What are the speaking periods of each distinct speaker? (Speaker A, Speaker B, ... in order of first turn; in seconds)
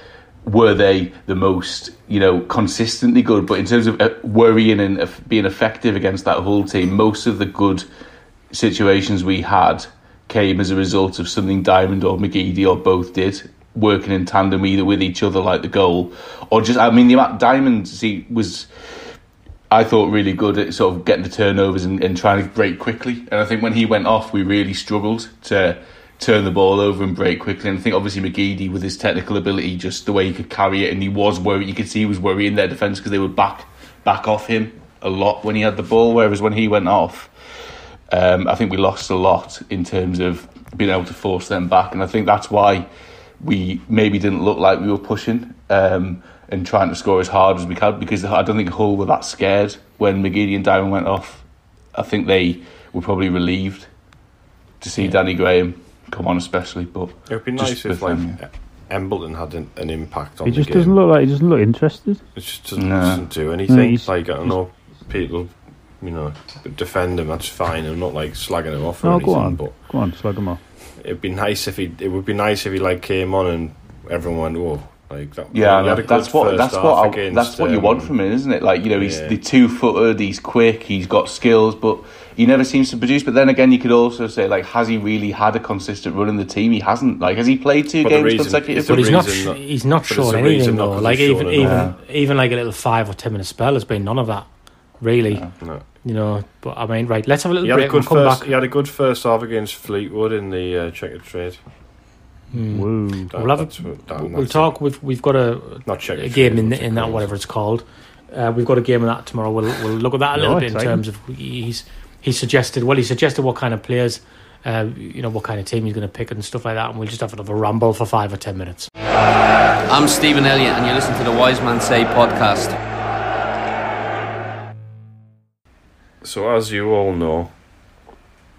Speaker A: 0.4-7.8, 8.5-18.7, 19.7-37.3, 38.1-42.9, 43.4-53.9, 54.8-58.4, 62.8-63.2, 75.5-89.1, 91.6-92.0
Speaker B: 57.3-61.0, 62.3-69.8, 71.0-78.2, 79.0-79.4, 88.0-91.8, 97.6-101.6, 103.3-104.7, 105.8-107.3, 126.2-127.6
Speaker C: 60.4-62.2, 63.7-64.5, 69.0-70.6, 102.7-103.3, 110.3-111.0
Speaker D: 88.8-98.5, 102.5-118.9
Speaker E: 119.9-122.8